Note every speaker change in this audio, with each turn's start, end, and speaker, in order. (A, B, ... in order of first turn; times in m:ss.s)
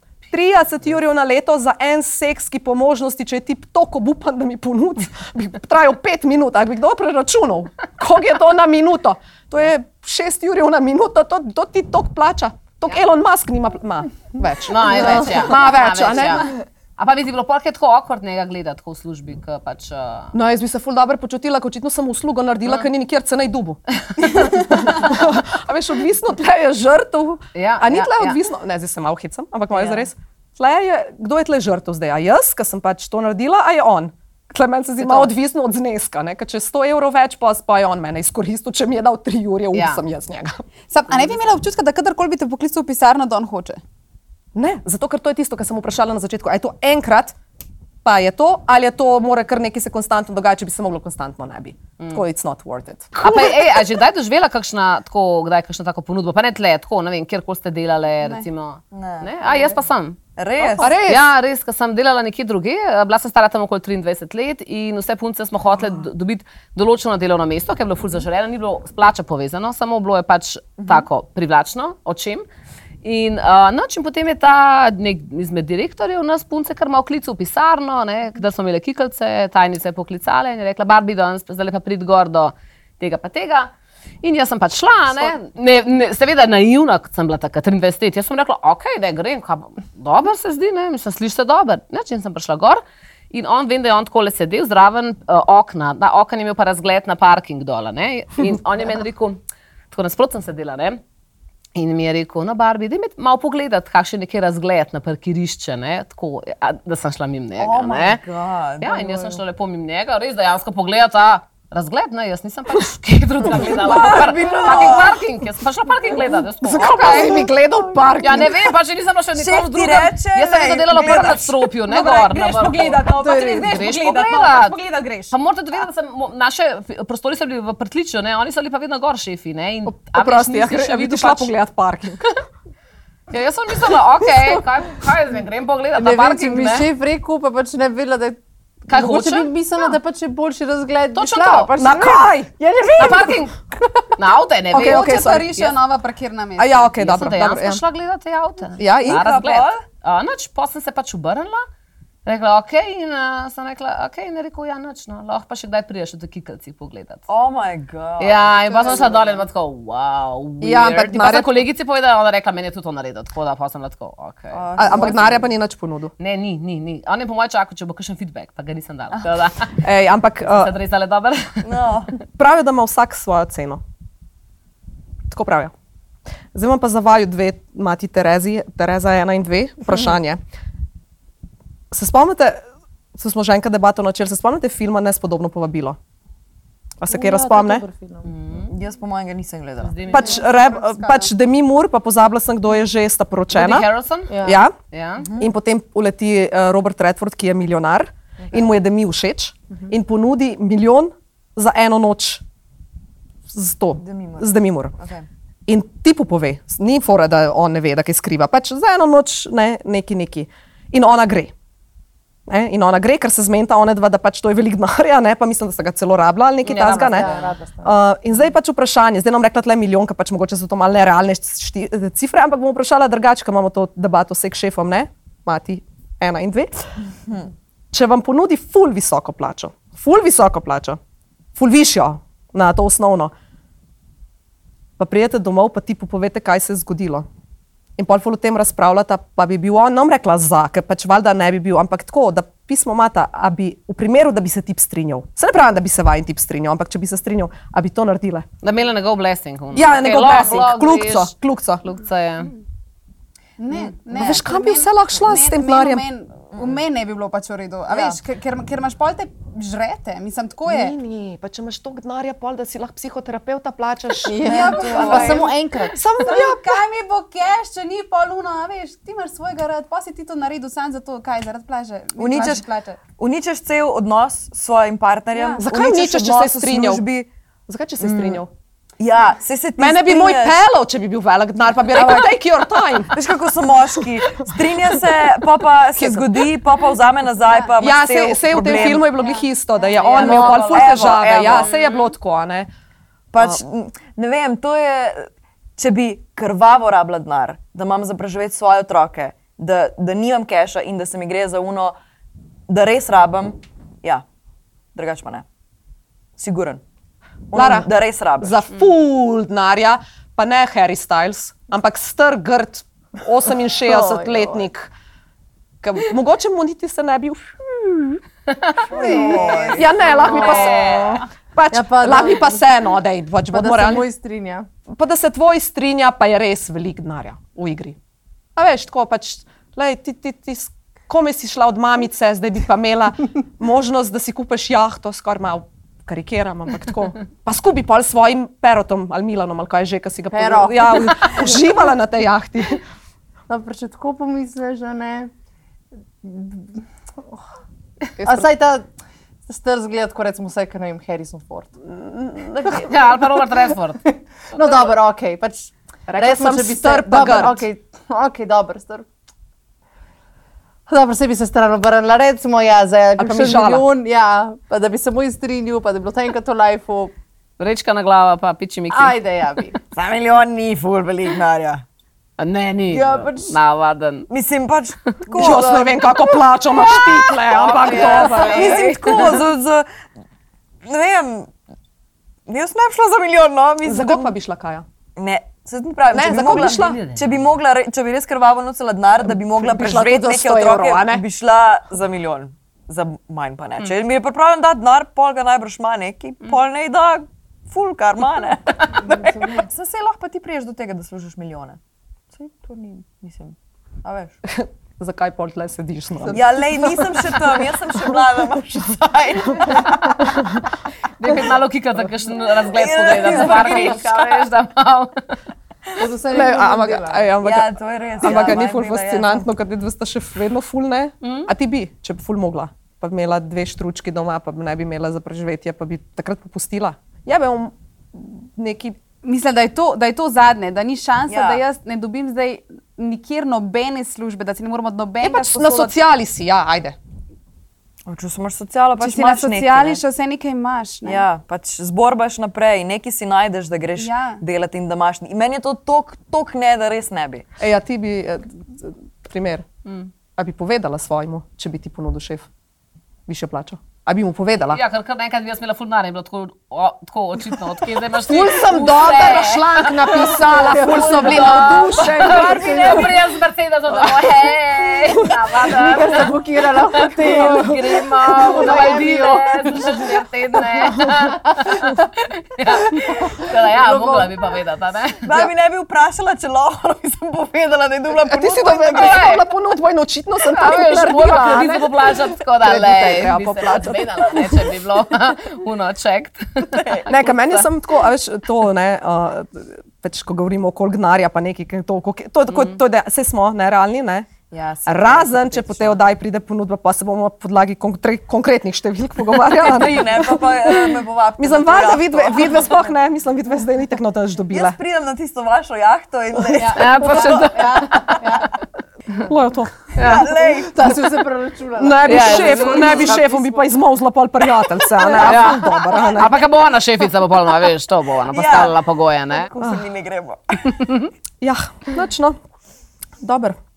0:00.3-0:16.5 A
0:14.7-0:20.3 B
0:20.3-0:41.2 A
0:27.6-0:28.4 B
0:29.7-0:30.1 B
0:35.0-0:35.3 B
0:39.7-0:40.0 B
0:40.9-0:43.8 C
0:44.6-0:47.4 A
0:48.0-0:53.8 A
0:53.2-1:12.4 B
0:58.9-0:59.8 D
1:00.4-1:01.0 D
1:00.8-1:01.3 A
1:10.8-1:11.1 D
1:13.0-1:23.7 B
1:24.2-1:39.4 B
1:39.9-1:41.0 B
1:41.8-1:48.2 B
1:47.6-1:49.4 D
1:48.8-1:57.5 B
1:53.7-1:55.2 D
1:54.6-1:55.0 A
1:56.6-1:58.7 A
1:58.2-2:04.8 B
1:59.4-2:01.6 D
2:01.9-2:05.4 A
2:03.3-2:03.6 E
2:05.3-2:11.5 B
2:09.9-2:12.3 A
2:13.3-2:16.9 B
2:16.0-2:18.4 E
2:18.9-2:19.5 B
2:18.9-2:22.5 E
2:21.2-2:21.7 B
2:21.8-2:23.3 A
2:23.0-2:23.6 B
2:24.2-2:25.7 B
2:24.7-2:25.7 A
2:24.8-2:27.0 C
2:26.6-2:27.8 A
2:27.0-2:31.6 B
2:28.8-2:29.3 A
2:29.0-2:29.8 D
2:32.3-2:37.2 B
2:37.3-2:39.4 D
2:38.2-2:45.3 B
2:40.6-2:41.6 A
2:44.5-2:45.5 D
2:44.8-2:46.1 A
2:46.2-2:49.7 B
2:49.8-2:50.7 A
2:50.4-2:51.9 B
2:51.6-2:52.2 D
2:52.4-2:53.8 A
2:55.3-2:55.7 A
2:56.5-3:00.4 A
3:01.9-3:02.6 A
3:03.2-3:06.0 A
3:07.0-3:07.8 A
3:07.1-3:08.3 E
3:08.2-3:08.7 B
3:08.7-3:10.2 D
3:09.8-3:10.5 B
3:10.1-3:13.9 A
3:10.3-3:11.3 C
3:13.5-3:15.3 B
3:14.3-3:14.6 E
3:14.4-3:14.7 A
3:15.2-3:15.5 D
3:15.4-3:22.4 A
3:23.5-3:24.9 A
3:24.0-3:25.3 D
3:25.7-3:31.5 A
3:32.5-3:46.8 A
3:36.6-3:37.5 B
3:37.1-3:38.0 E
3:47.9-3:51.0 A
3:51.6-3:53.3 A
3:55.0-3:57.2 A
3:58.0-4:08.5 A
4:08.6-4:12.6 B
4:09.7-4:11.8 A
4:13.6-4:21.0 C
4:14.1-4:14.5 D
4:14.1-4:16.0 A
4:16.5-4:16.8 D
4:17.9-4:18.2 D
4:20.7-4:26.8 A
4:24.3-4:26.1 E
4:24.4-4:25.5 D
4:26.2-4:33.0 C
4:32.2-4:37.3 D
4:35.3-4:35.6 C
4:35.6-4:37.0 A
4:37.7-4:38.5 A
4:38.0-4:38.4 D
4:39.0-4:40.6 D
4:39.8-4:43.2 A
4:41.9-4:42.4 D
4:43.0-4:49.2 D
4:46.0-4:46.3 A
4:47.8-4:52.7 A
4:49.2-4:49.5 C
4:49.9-4:52.1 B
4:50.1-4:51.7 D
4:53.3-5:02.0 D
5:02.7-5:04.2 D
5:05.0-5:05.4 D
5:06.4-5:06.8 D
5:07.5-5:08.6 D
5:07.5-5:07.9 A
5:08.4-5:14.9 A
5:13.8-5:14.7 E
5:15.8-5:18.2 A
5:18.9-5:22.6 E
5:18.9-5:24.1 A
5:19.0-5:20.7 D
5:20.1-5:21.2 B
5:23.5-5:24.7 E
5:24.9-5:28.0 A
5:28.6-5:42.8 A
5:40.3-5:41.5 E
5:43.5-5:45.3 E
5:46.2-5:46.8 E
5:48.2-5:48.9 E
5:49.5-5:51.8 E
5:51.9-5:52.9 A
5:52.7-5:54.1 B
5:54.6-5:59.1 E
5:56.1-5:57.7 A
6:00.9-6:07.1 E
6:03.2-6:03.9 A
6:07.6-6:09.2 B
6:08.9-6:09.8 E
6:09.9-6:11.8 D
6:12.4-6:14.3 B
6:12.9-6:13.6 E
6:14.3-6:16.1 D
6:15.3-6:19.0 A
6:17.5-6:19.4 B
6:18.2-6:18.6 E
6:18.4-6:19.9 D
6:20.8-6:21.5 D
6:22.5-6:24.4 D
6:23.8-6:24.9 A
6:25.2-6:41.8 D
6:26.1-6:27.0 A
6:26.3-6:27.5 B
6:29.3-6:31.2 A
6:39.0-6:39.7 E
6:42.3-6:44.4 D
6:44.5-6:46.7 A
6:46.3-6:50.4 D
6:51.2-6:55.2 B
6:52.7-6:54.5 D
6:53.4-6:53.8 E
6:56.0-6:57.3 E
6:56.3-7:09.0 A
6:57.4-6:59.5 D
6:58.3-6:58.6 E
7:01.2-7:01.5 B
7:09.2-7:16.0 C
7:11.3-7:11.6 D
7:15.2-7:17.0 A
7:18.1-7:20.0 D
7:19.0-7:21.2 C
7:21.0-7:27.5 D
7:24.0-7:24.4 C
7:27.6-7:29.7 A
7:30.4-7:32.5 A
7:33.3-7:34.8 A
7:34.7-7:55.4 B
7:38.2-7:43.1 A
7:40.2-7:43.1 E
7:43.9-7:45.3 A
7:45.8-7:50.2 E
7:53.7-7:54.4 E
7:55.2-7:59.2 D
7:58.3-8:04.6 A
7:58.9-7:59.4 B
8:00.5-8:07.5 B
8:07.1-8:14.3 A
8:12.5-8:12.8 B
8:14.5-8:16.0 D
8:14.9-8:24.8 A
8:19.4-8:22.7 D
8:24.5-8:28.4 D
8:26.5-8:28.5 E
8:26.6-8:28.2 B
8:29.2-8:29.9 A
8:30.0-8:30.3 B
8:30.0-8:30.9 D
8:30.3-8:33.6 E
8:31.8-8:36.3 A
8:32.1-8:33.1 B
8:35.2-8:39.5 B
8:38.3-8:40.8 D
8:41.4-8:42.4 A
8:43.2-8:43.6 A